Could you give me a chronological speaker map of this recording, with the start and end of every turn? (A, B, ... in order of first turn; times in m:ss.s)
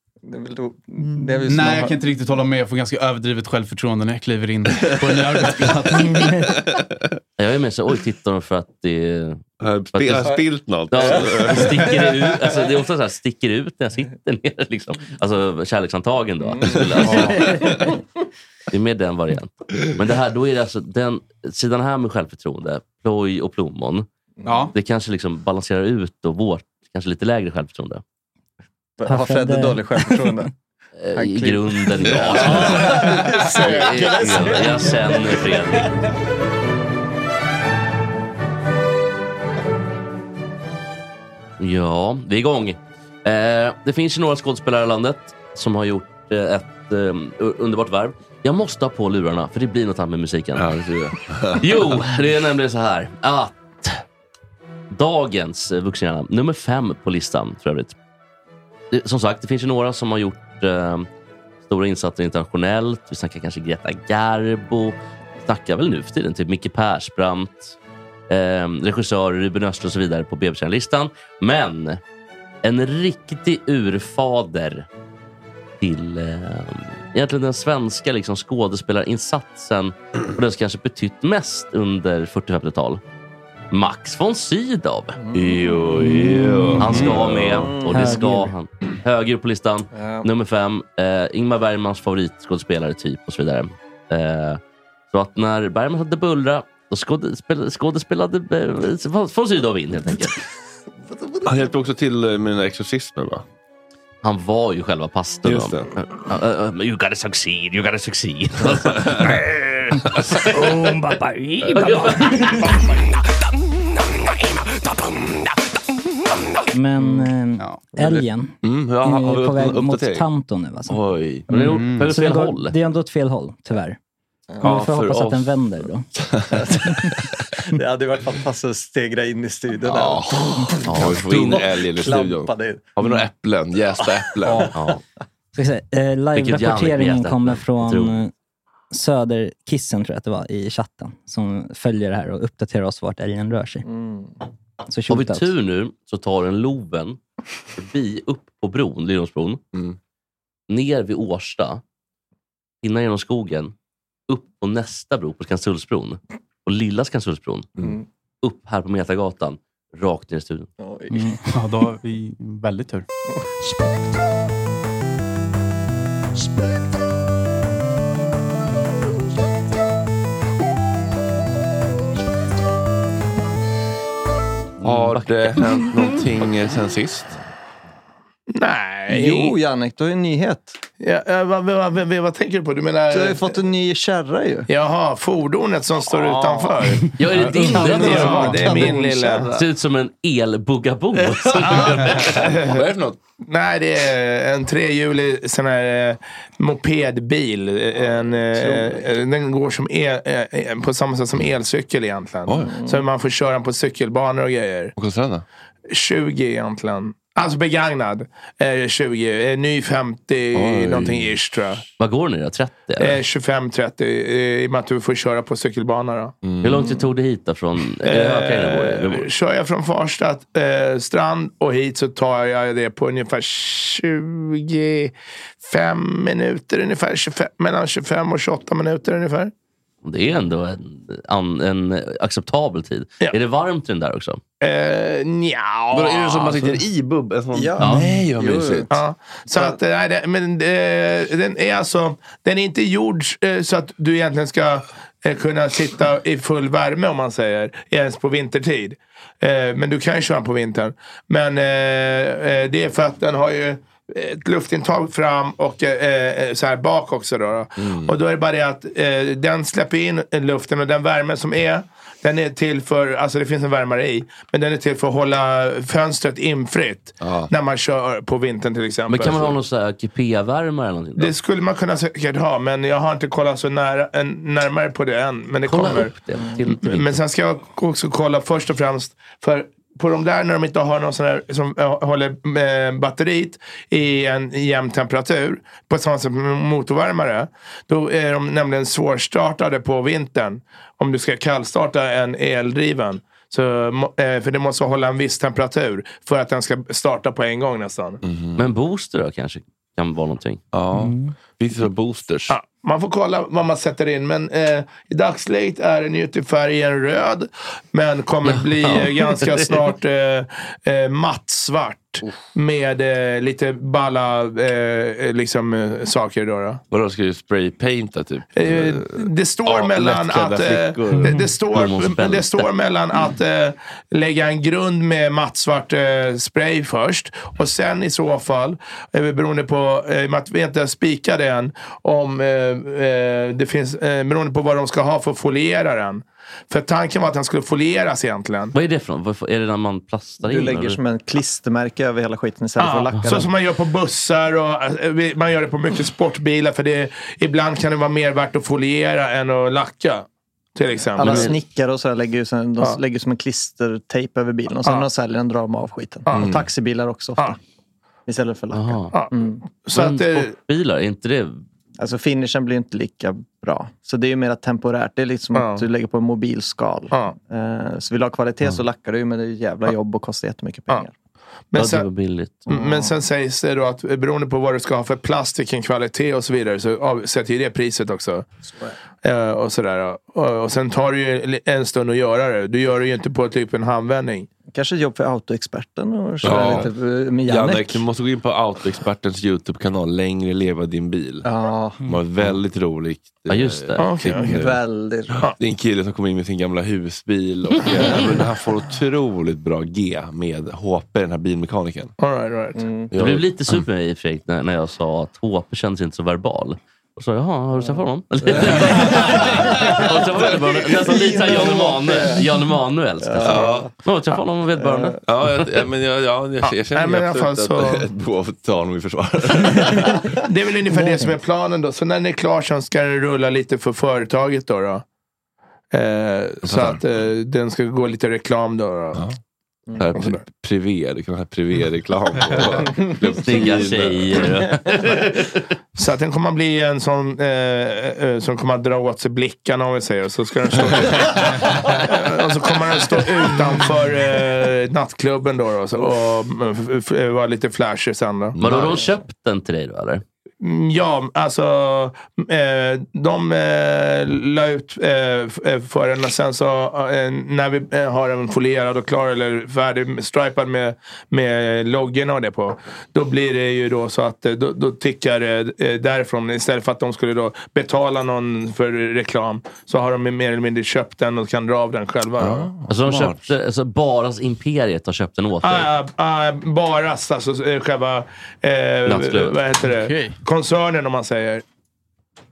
0:00.2-0:02.0 A
0:01.4-0:06.5 B
0:04.8-0:05.6 C
0:07.4-0:10.4 D
0:09.6-0:12.0 C
0:10.9-0:17.9 D
0:11.1-0:11.5 A
0:16.4-0:17.4 A
0:17.0-0:17.4 B
0:18.7-0:24.1 D
0:24.4-0:24.7 B
0:24.7-0:28.0 D
0:29.0-0:30.5 A
0:29.0-0:30.2 E
0:31.0-0:36.0 D
0:31.1-0:35.8 A
0:41.6-0:50.7 D
0:50.6-0:52.0 C
0:51.6-0:54.0 D
0:54.9-0:57.9 D
0:58.9-1:01.1 D
1:01.6-1:07.8 D
1:08.3-1:12.0 D
1:12.6-1:14.9 D
1:15.8-1:23.0 D
1:23.7-1:25.2 D
1:25.2-1:25.6 A
1:25.3-1:27.8 C
1:26.0-1:27.0 E
1:26.8-1:40.4 D
1:27.6-1:28.2 A
1:27.9-1:28.5 E
1:29.9-1:30.2 A
1:41.4-1:43.4 C
1:44.2-1:50.7 D
1:45.4-1:45.9 C
1:48.9-1:49.3 C
1:50.5-1:52.6 E
1:51.7-1:52.8 D
1:56.7-2:01.0 E
1:57.0-1:57.8 B
1:58.6-2:00.2 C
2:00.9-2:01.5 C
2:01.5-2:02.7 D
2:01.5-2:04.0 E
2:01.5-2:02.1 B
2:04.6-2:05.6 C
2:04.6-2:06.1 E
2:06.1-2:07.1 C
2:06.5-2:06.8 A
2:07.7-2:12.9 A
2:10.0-2:14.7 C
2:10.8-2:11.6 D
2:14.4-2:14.7 A
2:14.7-2:15.0 D
2:15.5-2:18.3 E
2:16.3-2:18.2 D
2:18.9-2:23.8 E
2:23.8-2:24.3 A
2:24.9-2:25.5 E
2:25.1-2:27.2 D
2:27.7-2:29.6 D
2:30.7-2:31.8 D
2:32.8-2:33.7 D
2:34.3-2:37.7 D
2:38.4-2:40.7 D
2:40.8-2:41.4 A
2:41.2-2:43.0 B
2:54.8-2:55.9 D
2:54.8-2:57.3 C
2:58.5-2:59.6 F
2:59.1-3:00.8 A
3:01.0-3:03.4 F
3:03.1-3:04.7 A
3:04.7-3:07.1 F
3:06.1-3:09.5 A
3:07.0-3:09.0 B
3:07.2-3:08.9 D
3:07.8-3:09.6 F
3:09.5-3:12.4 D
3:11.6-3:12.8 F
3:11.7-3:13.2 C
3:13.4-3:24.9 F
3:17.9-3:19.1 A
3:22.5-3:22.8 C
3:22.6-3:23.0 A
3:25.0-3:25.4 C
3:25.9-3:31.8 F
3:30.5-3:31.4 C
3:32.0-3:33.2 D
3:33.0-3:36.4 F
3:36.4-3:37.0 C
3:36.6-3:39.3 D
3:38.0-3:49.5 F
3:50.0-3:54.4 D
3:54.6-3:56.7 F
3:55.9-3:58.9 C
3:57.5-3:58.9 A
3:57.8-3:58.1 D
3:58.9-4:29.6 F
3:59.5-3:59.8 A
4:17.8-4:18.2 C
4:27.2-4:27.5 C
4:29.1-4:31.3 D
4:31.2-4:36.1 F
4:35.6-4:37.2 D
4:36.7-4:58.2 F
4:58.2-4:58.6 C
4:58.6-5:00.6 D
5:00.7-5:02.5 C
5:02.5-5:16.8 F
5:08.4-5:09.9 D
5:16.9-5:21.4 C
5:18.6-5:38.7 F
5:21.7-5:22.7 D
5:38.7-5:41.0 D
5:40.4-5:43.5 A
5:42.8-5:51.5 F
5:51.1-5:57.6 A
5:51.2-5:51.5 D
5:56.3-5:56.5 F
5:56.3-5:56.6 C
5:58.3-5:59.6 A
5:58.7-5:59.2 D
5:59.8-6:00.6 F
5:59.9-6:01.6 D
6:02.0-6:11.1 A
6:05.5-6:05.8 F
6:11.7-6:12.1 F
6:11.7-6:12.6 D
6:12.7-6:13.1 A
6:12.7-6:18.4 F
6:19.2-6:24.5 F
6:24.7-6:28.0 A
6:26.4-6:26.9 C
6:26.4-6:26.8 F
6:27.5-6:31.5 C
6:31.4-6:32.0 A
6:32.0-6:34.8 C
6:33.5-6:34.1 D
6:34.0-6:34.5 F
6:34.3-6:35.3 A
6:35.4-6:42.1 C
6:42.2-6:42.8 F
6:42.8-6:43.1 A
6:43.1-6:43.8 C
6:43.2-6:55.7 D
6:48.5-6:50.0 A
6:51.0-6:52.4 A
6:53.2-6:53.9 A
6:53.4-6:53.9 C
6:54.8-6:55.2 A
6:55.2-7:00.4 C
6:56.6-6:58.0 F
7:00.4-7:05.0 F
7:05.9-7:09.2 F
7:06.6-7:07.0 C
7:10.0-7:14.7 C
7:10.1-7:10.4 F
7:13.4-7:15.7 D
7:16.0-7:28.6 F
7:28.6-7:29.1 C
7:28.6-7:30.2 D
7:30.6-7:52.7 F
7:52.4-7:53.5 C
7:52.9-7:55.9 D
7:55.6-8:01.6 F
7:59.0-7:59.6 D
7:59.8-8:00.4 B